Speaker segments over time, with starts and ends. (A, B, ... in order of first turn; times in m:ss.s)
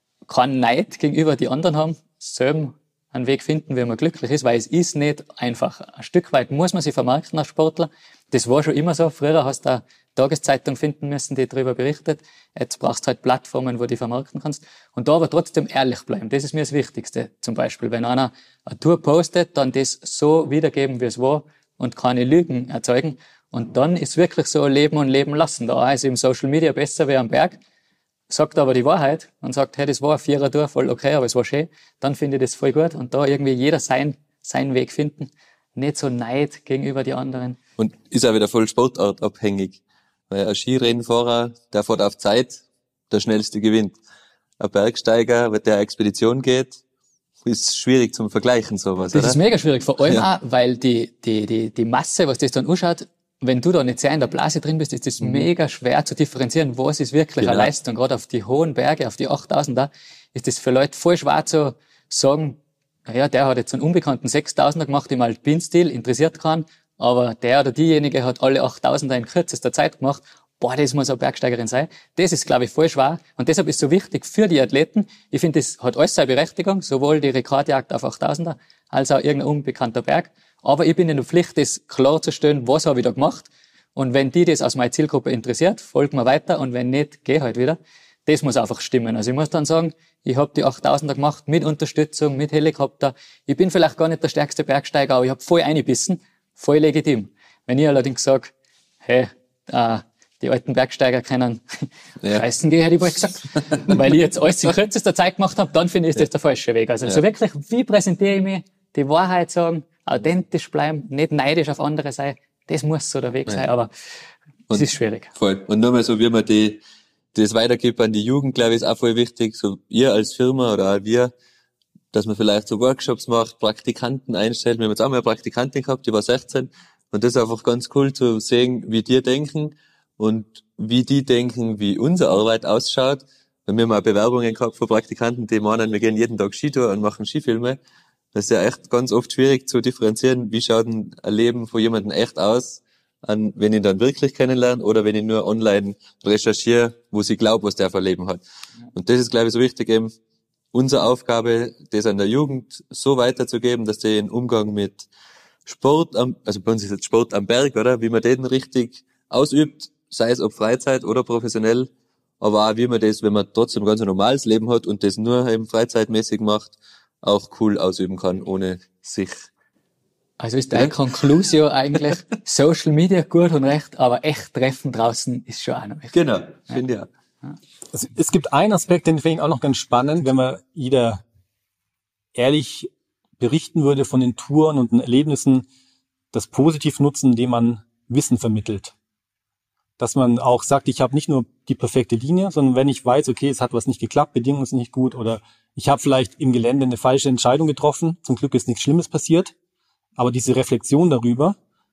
0:00.3-0:27.6 A
0:28.3-0:37.6 A
0:37.8-0:44.0 B
0:44.6-0:46.8 B
0:47.4-0:49.4 B
0:49.1-1:38.5 A
0:55.2-0:55.5 B
0:57.4-0:57.7 B
1:39.0-1:53.9 A
1:54.7-1:56.8 B
1:54.7-1:55.3 A
1:57.3-2:01.3 B
2:02.1-2:17.8 B
2:18.3-2:28.4 B
2:28.9-2:30.1 B
2:30.7-2:35.1 B
2:35.7-2:49.5 B
2:50.4-2:56.2 A
2:56.1-2:57.1 B
2:57.9-3:01.2 C
3:02.4-3:05.7 C
3:06.3-3:08.9 C
3:10.0-3:19.5 C
3:20.2-3:21.6 C